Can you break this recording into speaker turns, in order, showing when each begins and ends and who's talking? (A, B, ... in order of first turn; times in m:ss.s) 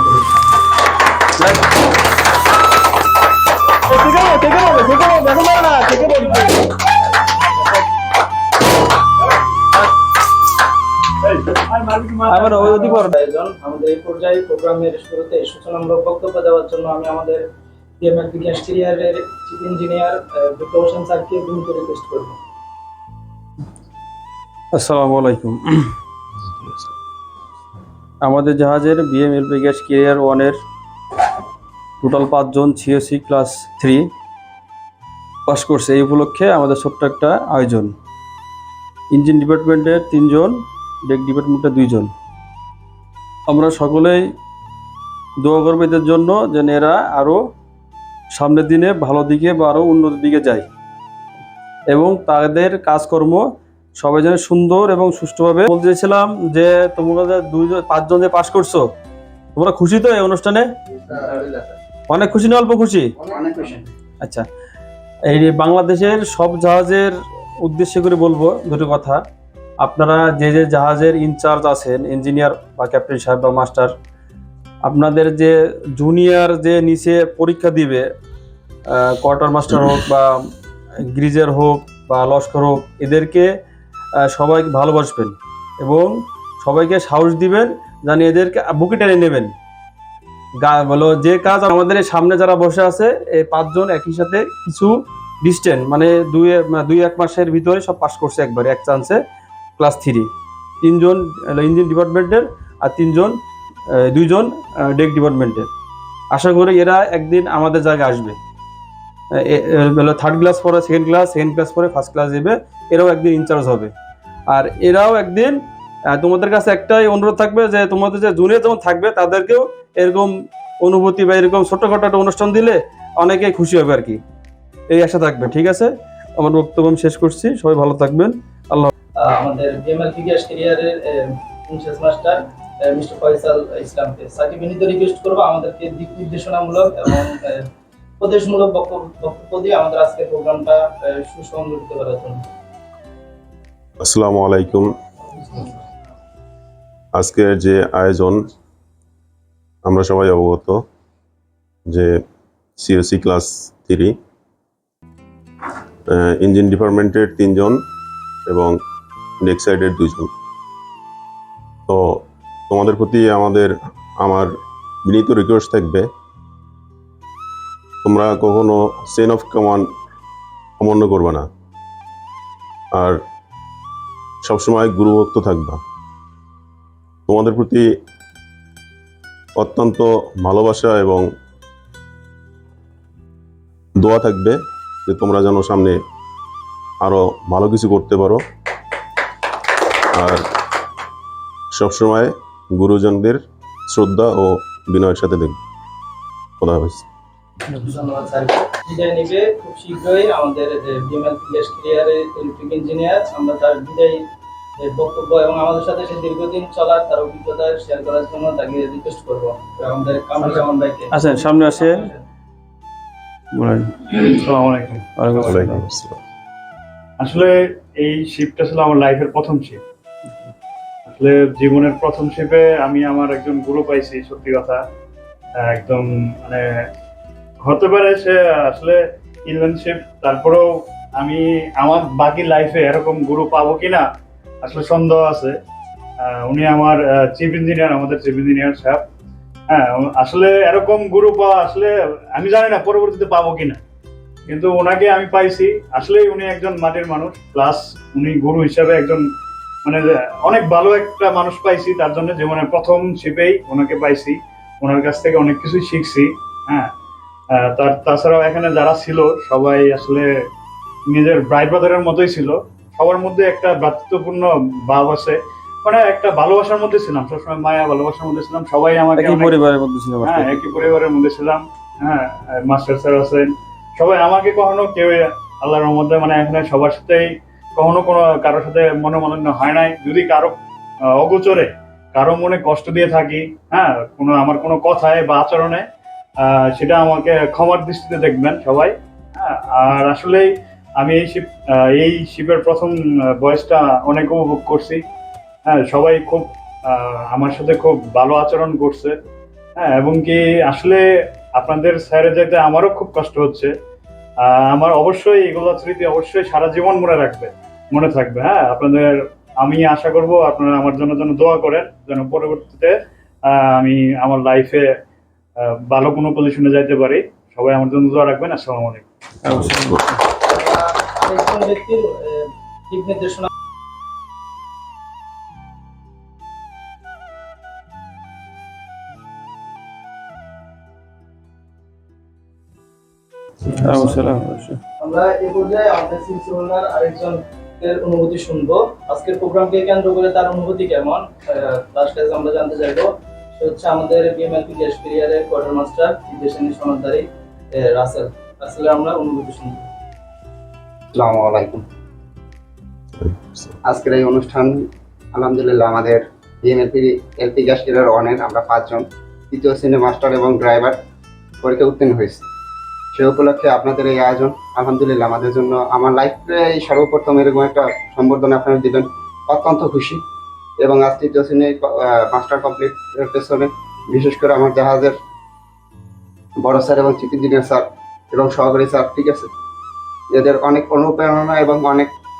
0:01.4-0:01.6 A
0:03.9-0:06.6 A
0:11.2-0:12.9 B
0:12.3-0:13.1 A
0:12.8-0:17.4 C
0:18.0-0:22.4 C
0:24.7-0:25.8 A
0:28.2-0:30.6 A
0:32.0-0:34.1 A
0:35.4-0:37.9 A
0:39.1-0:42.1 A
0:43.5-0:44.2 A
0:45.4-0:47.4 A
0:48.3-0:50.6 A
0:51.9-0:53.4 A
0:54.0-0:58.8 A
0:59.5-1:00.7 A
1:01.1-1:01.7 D
1:02.1-1:03.1 A
1:03.2-1:03.8 D
1:05.3-1:09.2 A
1:09.8-1:13.9 A
1:14.8-1:18.0 A
1:18.9-1:20.3 A
1:21.1-1:23.5 A
1:24.3-1:29.5 A
1:30.6-1:39.2 A
1:39.8-1:40.3 A
1:40.8-1:43.4 A
1:44.0-1:45.7 A
1:46.3-1:48.4 A
1:49.3-1:53.9 A
1:54.5-1:55.6 A
1:56.1-2:04.2 A
2:04.9-2:08.9 A
2:09.2-2:17.6 C
2:18.2-2:22.4 C
2:24.0-2:24.9 E
2:27.2-2:28.4 E
2:29.8-2:30.8 E
2:32.8-2:34.1 E
2:36.2-2:37.7 E
2:38.5-2:38.8 E
2:39.4-2:40.3 E
2:41.9-2:43.7 E
2:44.2-2:44.5 E
2:45.1-2:46.1 E
2:48.0-2:49.8 E
2:50.8-2:51.5 E
2:54.4-2:55.8 E
2:57.3-2:57.8 E
2:59.6-3:01.2 E
3:04.0-3:06.0 E
3:07.0-3:08.4 E
3:11.7-3:15.6 E
3:16.6-3:17.0 E
3:17.8-3:24.2 C
3:24.8-3:32.2 C
3:31.1-3:32.1 A
3:33.5-3:34.2 A
3:34.2-3:35.7 B
3:35.1-3:35.8 A
3:35.5-3:36.2 E
3:37.2-3:39.8 B
3:41.1-3:44.8 B
3:45.6-3:46.9 B
3:47.6-3:50.7 B
3:51.2-3:54.0 B
3:54.6-3:55.6 B
3:56.2-3:59.0 B
3:59.7-4:03.8 B
4:04.5-4:09.2 B
4:09.8-4:16.9 B
4:17.5-4:20.2 B
4:21.1-4:29.5 B
4:29.2-4:30.6 A
4:30.2-4:40.6 B
4:41.1-4:45.8 B
4:46.4-4:50.5 B
4:51.0-4:55.0 B
4:55.7-4:59.2 B
4:59.8-5:01.0 B
5:01.6-5:03.7 B
5:04.4-5:13.0 B
5:13.5-5:14.9 B
5:15.6-5:19.0 B
5:19.4-5:20.2 A
5:20.4-5:23.5 C
5:33.6-5:34.8 A
5:33.9-5:34.2 C
5:35.0-5:49.8 C
5:51.1-5:51.8 D
5:53.8-6:01.0 D
6:01.6-6:02.4 D
6:03.1-6:10.2 D
6:10.8-6:15.2 D
6:16.6-6:19.5 D
6:20.3-6:22.1 D